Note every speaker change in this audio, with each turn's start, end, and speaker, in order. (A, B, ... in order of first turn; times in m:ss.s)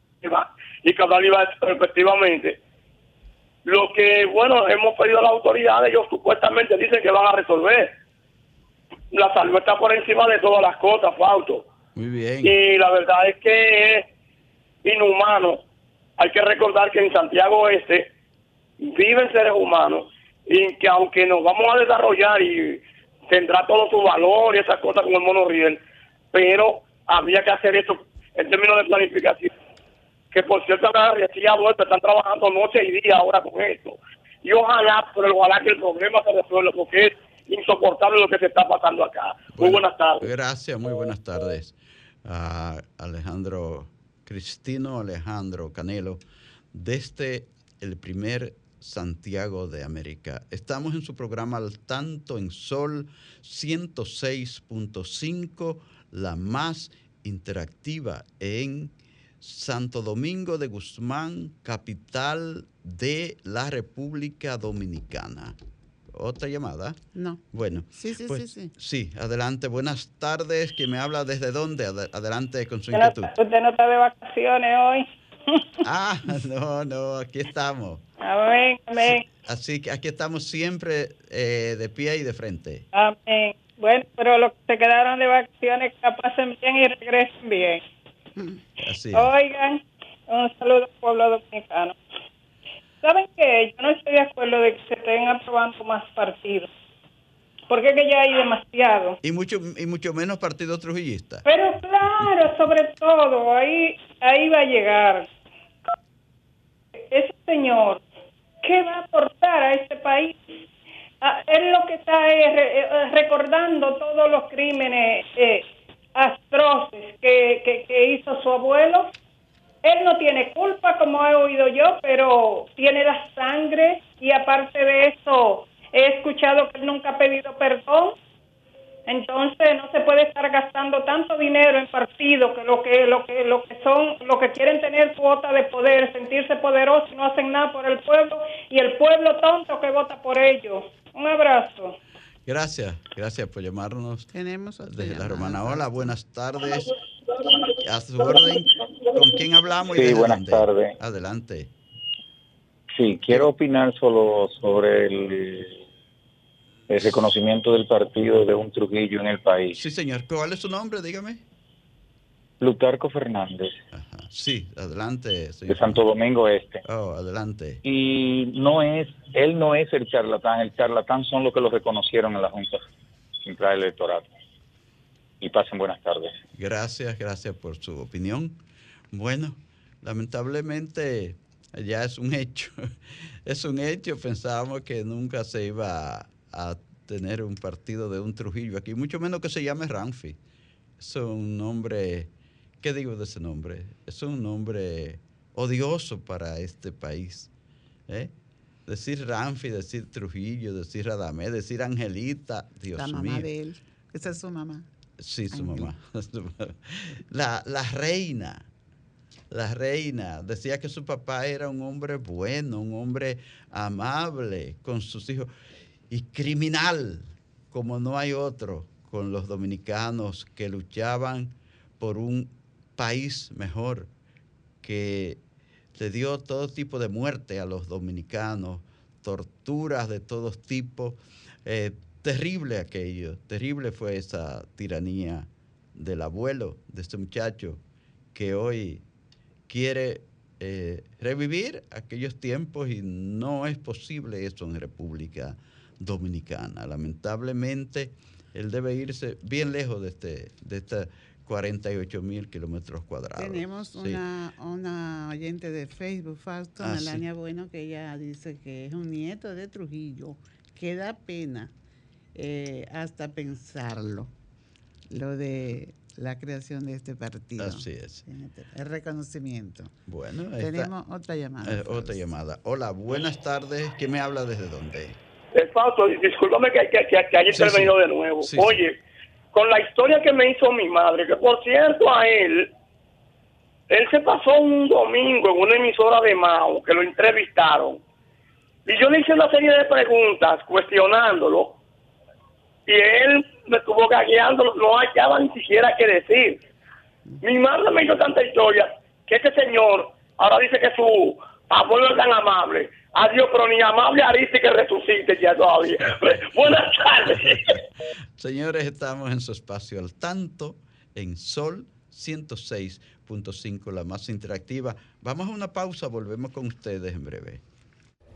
0:00.2-0:02.6 A
0:03.6-0:07.9 A
0:09.1-0:11.7 A
0:11.9-0:12.5 B
0:12.4-0:14.1 A
0:14.8-0:15.6 A
0:16.2-0:18.1 A
0:18.8-0:25.8 A
0:26.3-0:29.5 A
0:30.3-0:40.3 A
0:39.5-0:46.2 B
0:46.7-1:05.6 B
1:06.1-1:07.0 B
1:07.1-1:08.7 C
1:07.5-1:13.3 B
1:12.9-1:15.6 D
1:15.8-1:18.0 B
1:18.2-1:19.2 D
1:19.0-1:22.8 B
1:22.9-1:27.8 D
1:28.8-1:29.3 B
1:29.1-1:32.0 D
1:33.0-1:36.7 D
1:37.7-1:39.2 D
1:39.2-1:41.4 B
1:41.4-1:45.3 D
1:47.1-1:48.0 D
1:48.6-1:50.6 D
1:51.2-1:59.1 D
1:59.8-2:08.2 D
2:09.1-2:22.0 D
2:22.4-2:24.3 B
2:24.3-2:26.1 C
2:24.8-2:26.9 B
2:27.7-2:31.7 B
2:29.9-2:30.9 E
2:32.9-2:35.8 E
2:36.9-2:39.8 E
2:39.7-2:41.4 B
2:42.6-2:43.7 E
2:43.9-2:46.0 B
2:45.7-2:46.8 E
2:46.8-2:47.8 B
2:47.8-2:52.8 E
2:53.4-2:54.2 E
2:55.4-2:56.3 E
2:56.6-2:58.6 B
2:59.1-3:02.9 B
3:03.4-3:10.4 B
3:11.0-3:12.3 B
3:12.8-3:17.5 B
3:18.1-3:18.3 B
3:18.9-3:23.5 B
3:23.0-3:24.8 C
3:25.2-3:28.6 B
3:25.5-3:25.9 C
3:29.5-3:35.5 B
3:36.1-3:44.1 B
3:44.8-3:45.4 B
3:46.0-3:57.8 B
3:58.3-3:59.0 B
3:59.7-4:14.2 B
4:13.4-4:21.7 C
4:16.8-4:17.2 B
4:22.4-4:24.3 C
4:25.1-4:29.9 C
4:27.6-4:28.2 B
4:30.1-4:30.9 B
4:30.6-4:32.2 C
4:31.6-4:35.2 B
4:35.5-4:39.0 A
4:37.5-4:38.8 B
4:39.5-4:42.7 A
4:43.9-4:48.0 A
4:48.8-4:51.8 A
4:52.9-4:56.6 A
4:57.4-5:07.7 A
5:07.3-5:07.8 B
5:08.4-5:17.6 B